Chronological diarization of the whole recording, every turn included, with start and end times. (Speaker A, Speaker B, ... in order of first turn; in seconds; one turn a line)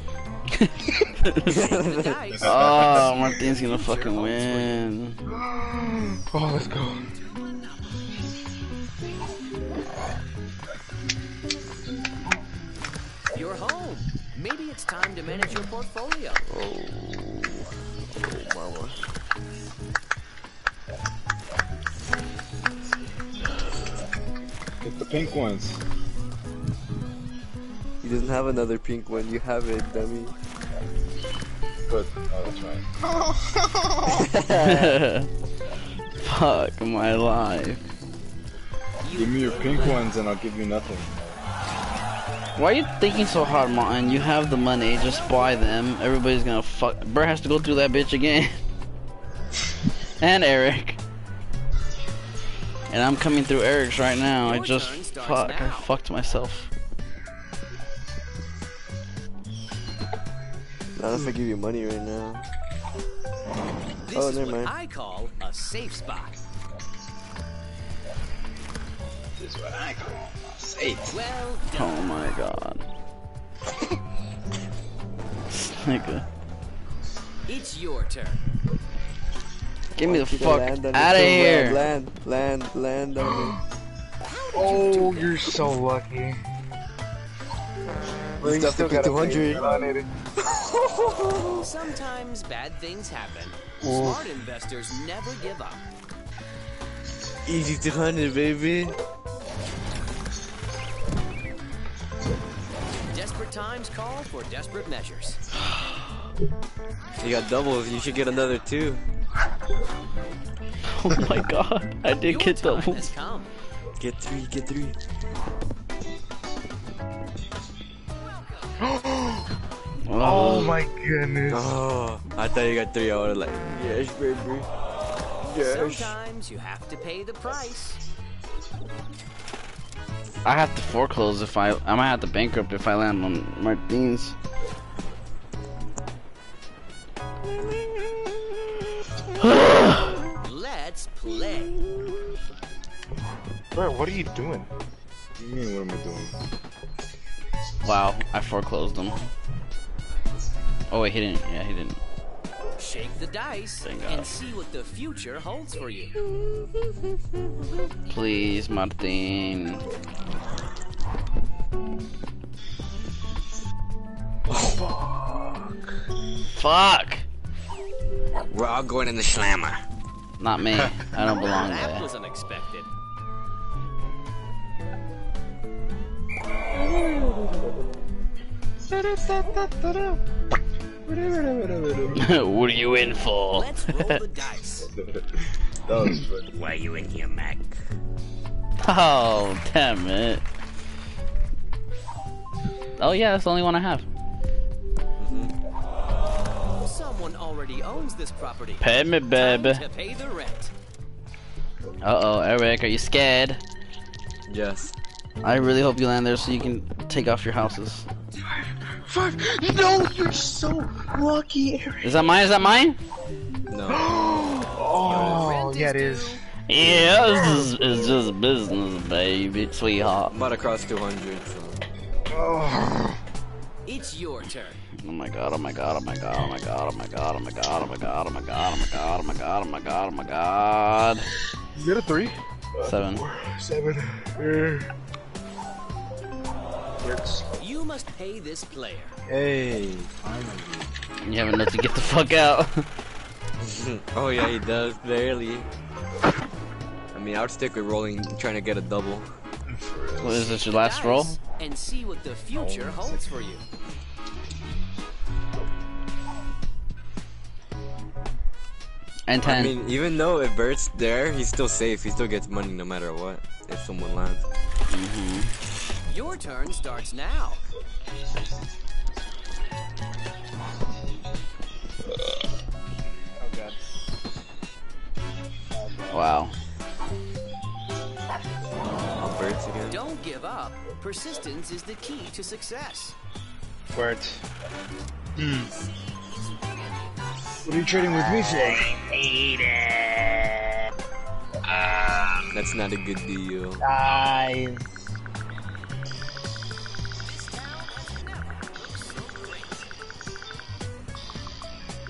Speaker A: 0.6-1.6
Speaker B: 1.4-4.8
Speaker C: 1.4-2.2
Speaker A: 2.4-5.2
Speaker D: 5.4-7.1
Speaker B: 13.3-16.4
Speaker C: 16.5-17.6
Speaker C: 18.1-19.0
Speaker E: 24.8-25.8
Speaker C: 28.0-30.3
Speaker E: 31.9-34.3
Speaker C: 34.1-35.0
Speaker A: 34.5-35.3
Speaker A: 36.2-37.8
Speaker B: 39.0-40.0
Speaker E: 39.1-41.1
Speaker A: 42.5-48.6
Speaker A: 50.2-51.0
Speaker A: 52.9-56.7
Speaker B: 54.4-55.9
Speaker C: 61.0-62.4
Speaker B: 64.0-66.4
Speaker C: 64.1-64.7
Speaker E: 69.4-71.2
Speaker B: 71.1-72.0
Speaker A: 71.7-72.8
Speaker A: 75.5-76.2
Speaker B: 77.5-78.4
Speaker A: 80.0-81.9
Speaker C: 80.0-83.5
Speaker D: 83.3-83.6
Speaker B: 84.2-85.6
Speaker D: 84.5-86.4
Speaker C: 88.4-89.7
Speaker E: 88.4-89.9
Speaker D: 88.6-90.0
Speaker C: 90.4-91.7
Speaker B: 91.5-95.8
Speaker D: 93.8-94.2
Speaker C: 97.5-99.0
Speaker B: 103.1-105.4
Speaker C: 107.2-109.0
Speaker A: 111.0-113.1
Speaker B: 112.2-113.5
Speaker C: 114.0-115.0
Speaker D: 118.8-119.5
Speaker A: 120.0-120.8
Speaker D: 120.1-121.7
Speaker C: 121.5-124.7
Speaker C: 125.4-126.1
Speaker B: 125.6-128.0
Speaker A: 130.4-134.3
Speaker A: 139.4-140.2
Speaker B: 140.4-141.8
Speaker D: 143.7-144.7
Speaker E: 145.4-146.3
Speaker A: 147.8-149.3
Speaker A: 150.9-152.0
Speaker B: 152.8-156.1
Speaker A: 153.8-154.3
Speaker A: 158.1-159.8
Speaker C: 164.5-165.7
Speaker A: 166.5-167.2
Speaker C: 168.4-169.8
Speaker A: 170.4-172.1
Speaker B: 171.2-172.9
Speaker E: 178.9-180.2
Speaker E: 181.1-182.3
Speaker A: 182.1-184.2
Speaker B: 183.5-184.9
Speaker E: 185.8-186.5
Speaker C: 186.5-187.7
Speaker A: 188.8-190.4
Speaker A: 193.0-194.1
Speaker C: 195.2-195.6
Speaker B: 196.8-200.7
Speaker A: 198.8-199.8
Speaker A: 202.0-203.6
Speaker C: 204.5-204.9
Speaker A: 205.4-208.1
Speaker D: 209.1-212.2
Speaker A: 212.0-213.0
Speaker C: 213.7-214.1
Speaker D: 213.9-216.4
Speaker C: 215.0-215.5
Speaker B: 215.1-216.4
Speaker A: 216.7-220.3
Speaker D: 217.3-217.8
Speaker C: 220.3-221.8
Speaker D: 222.3-223.2
Speaker B: 223.8-224.8
Speaker A: 225.0-231.3
Speaker D: 231.8-232.4
Speaker A: 232.8-233.2
Speaker D: 233.3-234.9
Speaker D: 237.0-237.4
Speaker B: 237.6-239.1
Speaker E: 239.3-240.9
Speaker A: 241.2-242.9
Speaker C: 243.6-245.7
Speaker C: 247.1-249.3
Speaker E: 249.7-250.5
Speaker A: 250.2-251.3
Speaker B: 250.5-253.6
Speaker E: 252.5-253.3
Speaker A: 259.3-259.7
Speaker C: 259.4-264.4
Speaker A: 264.9-265.5
Speaker B: 266.1-267.6
Speaker D: 273.4-273.8
Speaker D: 275.7-276.1
Speaker A: 276.1-276.5
Speaker C: 279.1-280.0
Speaker B: 279.9-283.1
Speaker D: 283.9-284.4
Speaker E: 285.4-285.7
Speaker E: 287.6-289.0
Speaker D: 288.2-290.8
Speaker D: 291.7-292.2
Speaker C: 292.5-293.8
Speaker D: 293.8-294.8
Speaker B: 297.2-299.9